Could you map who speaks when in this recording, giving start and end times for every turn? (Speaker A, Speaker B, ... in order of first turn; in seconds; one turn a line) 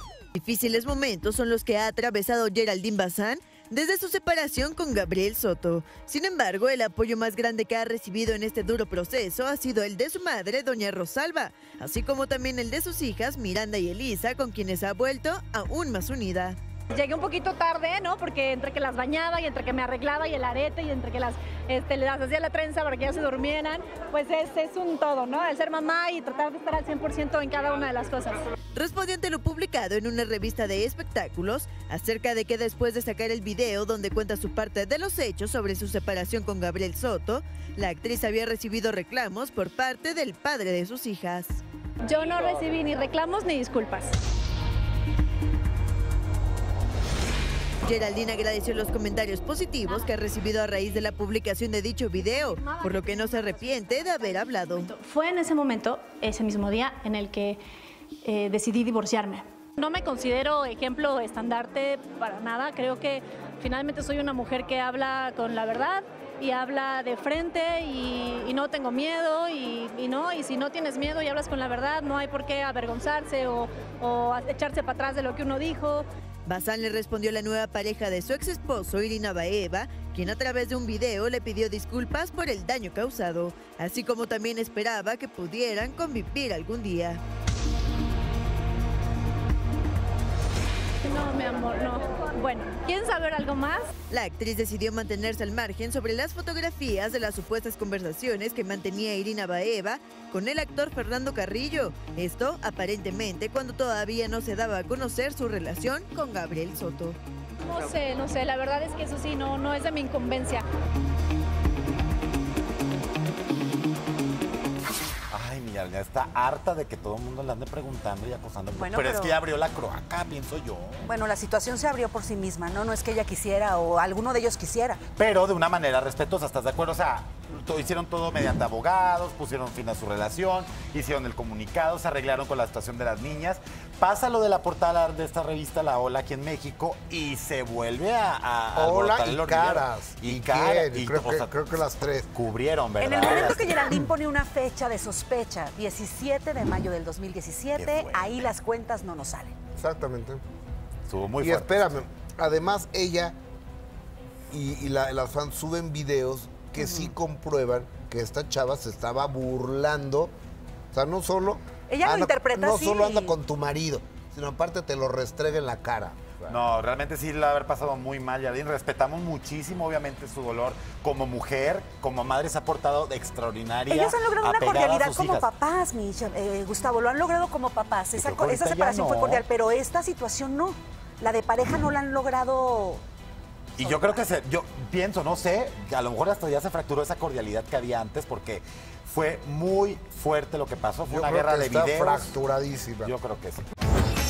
Speaker A: 0.3-16.6
Speaker B: 16.9-28.4
Speaker A: 28.7-41.6
Speaker B: 42.0-44.1
Speaker A: 47.8-54.9
Speaker B: 52.2-57.6
Speaker B: 58.2-76.0
Speaker A: 76.5-87.2
Speaker B: 91.0-93.9
Speaker A: 94.1-107.2
Speaker B: 107.6-110.6
Speaker C: 115.3-121.1
Speaker D: 118.7-119.4
Speaker D: 121.0-125.0
Speaker C: 125.2-143.9
Speaker E: 138.8-142.3
Speaker D: 143.0-149.5
Speaker C: 147.8-148.4
Speaker E: 149.8-150.4
Speaker C: 151.1-152.0
Speaker E: 151.4-153.3
Speaker E: 154.5-160.3
Speaker D: 156.8-157.1
Speaker E: 160.9-166.6
Speaker D: 161.9-163.4
Speaker C: 166.5-175.5
Speaker D: 173.9-183.0
Speaker C: 178.1-179.4
Speaker C: 183.8-192.3
Speaker D: 183.8-184.2
Speaker E: 191.1-193.1
Speaker C: 193.0-193.7